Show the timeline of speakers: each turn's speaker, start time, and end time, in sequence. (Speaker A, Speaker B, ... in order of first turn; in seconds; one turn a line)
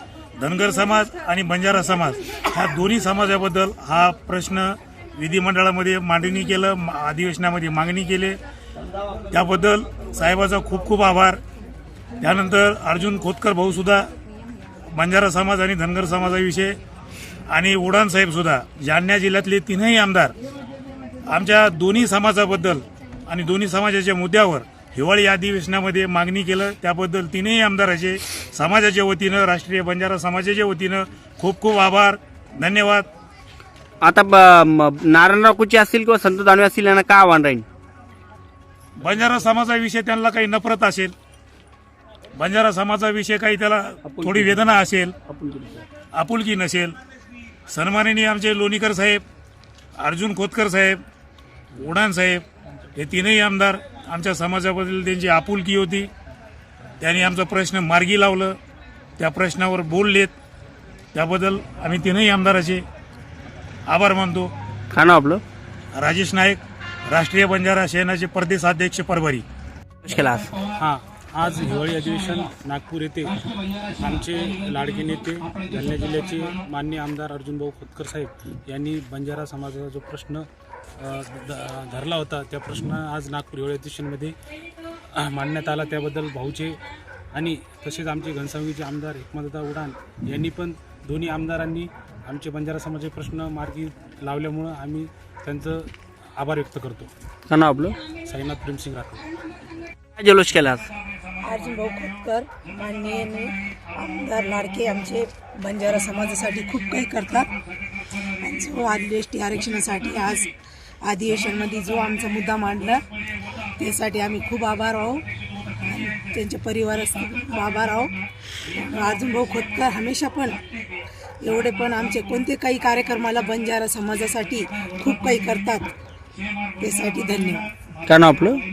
Speaker A: 0.4-8.4
Speaker A: 9.3-11.4
Speaker A: 12.2-14.1
Speaker A: 15.0-16.8
Speaker A: 17.5-20.3
Speaker A: 21.3-33.1
Speaker B: 34.1-37.6
Speaker A: 39.0-41.1
Speaker A: 42.4-45.1
Speaker C: 44.1-44.6
Speaker C: 45.3-45.8
Speaker A: 46.1-47.0
Speaker A: 47.7-49.2
Speaker A: 50.0-51.0
Speaker A: 51.8-52.4
Speaker A: 53.0-56.1
Speaker A: 57.0-58.6
Speaker A: 59.2-60.3
Speaker A: 61.1-62.8
Speaker A: 63.9-64.5
Speaker B: 65.0-65.4
Speaker A: 65.9-69.4
Speaker B: 70.1-70.5
Speaker C: 70.8-73.3
Speaker C: 74.0-80.5
Speaker C: 81.0-84.3
Speaker C: 85.2-86.8
Speaker C: 87.3-97.1
Speaker B: 97.5-97.9
Speaker C: 98.2-99.3
Speaker B: 100.2-100.8
Speaker D: 101.4-107.5
Speaker D: 108.4-110.5
Speaker D: 111.0-113.0
Speaker D: 113.8-115.2
Speaker D: 115.8-118.1
Speaker D: 118.8-120.6
Speaker D: 121.4-125.9
Speaker D: 126.8-127.7
Speaker B: 128.1-128.5